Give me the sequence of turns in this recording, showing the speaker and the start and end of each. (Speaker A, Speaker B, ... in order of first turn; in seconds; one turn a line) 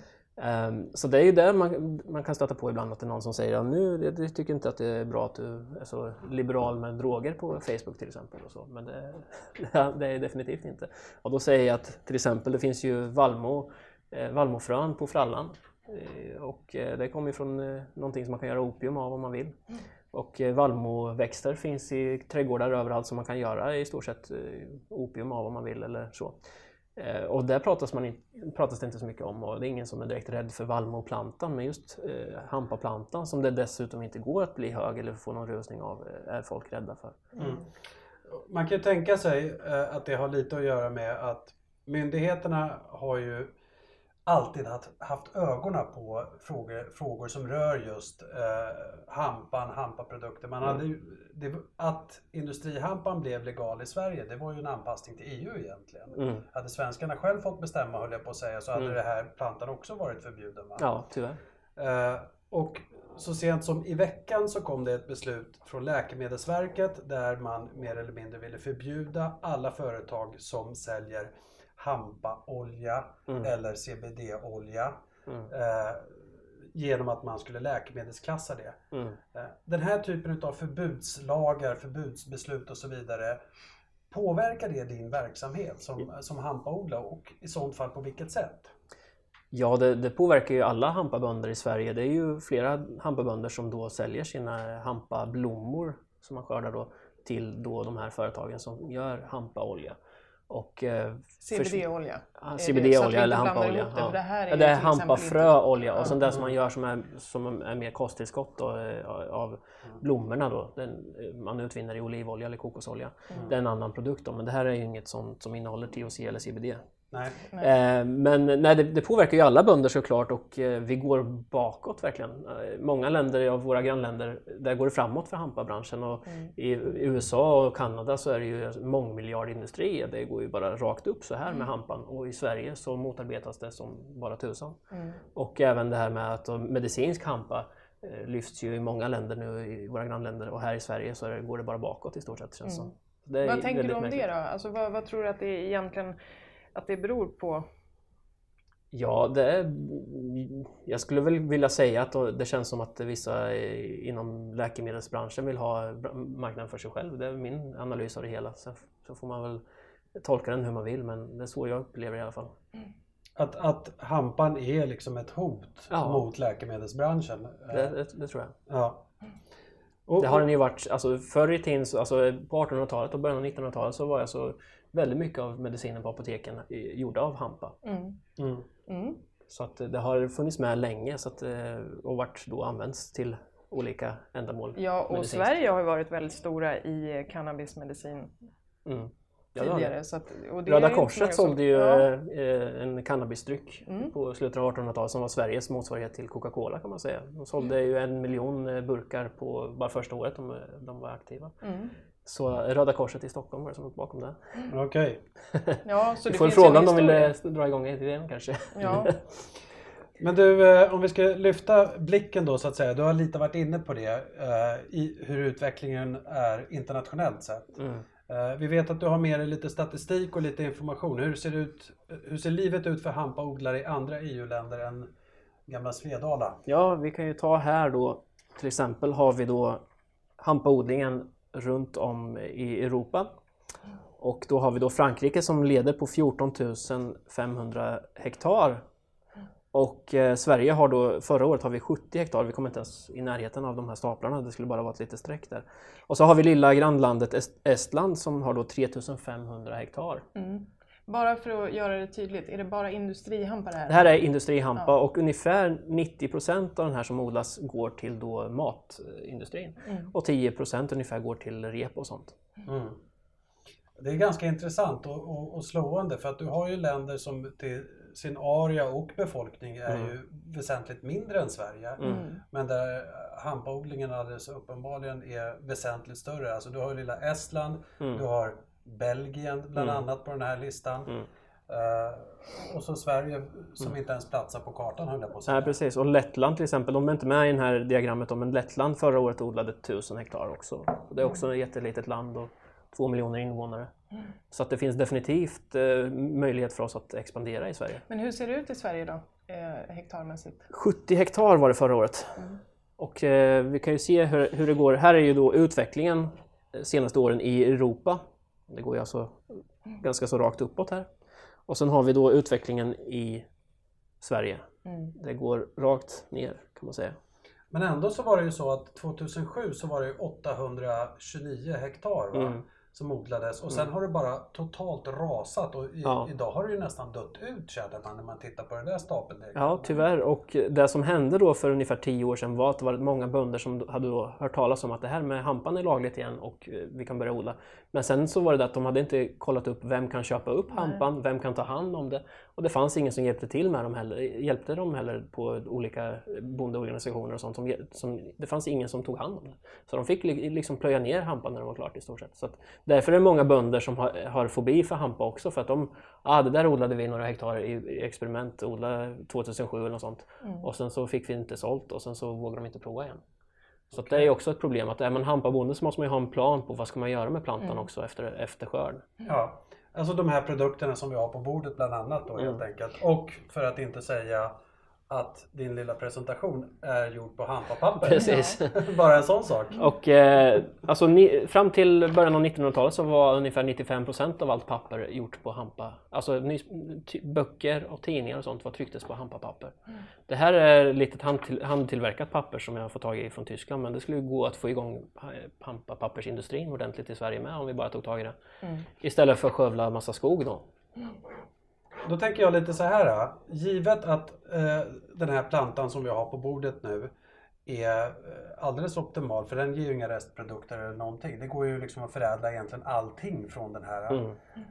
Speaker A: 0.4-19.6
Speaker A: 20.1-26.4
Speaker A: 27.0-37.2
Speaker B: 37.4-37.7
Speaker B: 38.3-43.5
Speaker B: 44.3-60.9
Speaker A: 56.2-56.4
Speaker A: 60.8-61.4
Speaker B: 61.8-75.0
Speaker B: 75.5-78.8
Speaker A: 78.9-79.2
Speaker B: 79.3-83.4
Speaker B: 84.1-88.7
Speaker A: 89.5-100.0
Speaker A: 100.5-116.8
Speaker C: 101.4-106.2
Speaker B: 106.2-106.5
Speaker B: 117.1-117.4
Speaker A: 117.6-134.8
Speaker C: 126.3-126.5
Speaker C: 134.9-135.2
Speaker A: 135.3-144.3
Speaker C: 143.4-146.2
Speaker C: 146.8-147.7
Speaker A: 148.9-159.6
Speaker A: 160.2-162.6
Speaker B: 163.4-168.0
Speaker A: 165.9-166.3
Speaker A: 167.7-168.6
Speaker B: 168.7-169.1
Speaker B: 170.1-170.5
Speaker A: 170.2-177.8
Speaker C: 177.8-178.2
Speaker B: 178.4-178.7
Speaker C: 178.9-179.2
Speaker A: 179.5-185.6
Speaker C: 184.8-188.3
Speaker A: 188.8-189.9
Speaker C: 189.6-192.1
Speaker A: 190.7-201.6
Speaker C: 193.9-194.1
Speaker C: 201.6-201.9
Speaker A: 202.2-204.4
Speaker B: 204.7-205.2
Speaker A: 205.5-209.3
Speaker C: 205.8-207.3
Speaker C: 208.8-209.1
Speaker B: 210.2-225.1
Speaker A: 217.8-218.1
Speaker B: 225.7-226.6
Speaker A: 226.7-229.8
Speaker A: 230.4-233.3
Speaker A: 234.2-238.8
Speaker A: 239.7-250.2
Speaker C: 250.3-254.2
Speaker A: 253.9-262.4
Speaker C: 259.9-260.1
Speaker B: 262.6-263.0
Speaker B: 264.0-281.1
Speaker A: 269.9-270.1
Speaker A: 272.0-272.3
Speaker C: 272.0-272.4
Speaker A: 279.8-280.0
Speaker B: 281.7-285.8
Speaker A: 285.5-293.9
Speaker A: 294.5-298.1
Speaker C: 298.1-300.7
Speaker A: 300.7-302.5
Speaker A: 303.0-311.1
Speaker A: 311.7-313.5
Speaker A: 314.2-317.2
Speaker C: 314.9-315.1
Speaker B: 317.7-329.9
Speaker A: 322.3-322.6
Speaker A: 326.0-326.3
Speaker A: 329.6-363.2
Speaker B: 363.9-364.3
Speaker A: 363.9-369.1
Speaker B: 369.3-374.6
Speaker B: 375.1-379.8
Speaker A: 378.0-378.9
Speaker A: 379.8-389.8
Speaker A: 390.3-398.4
Speaker A: 399.0-400.7
Speaker B: 402.0-407.1
Speaker B: 407.7-414.3
Speaker A: 414.1-414.4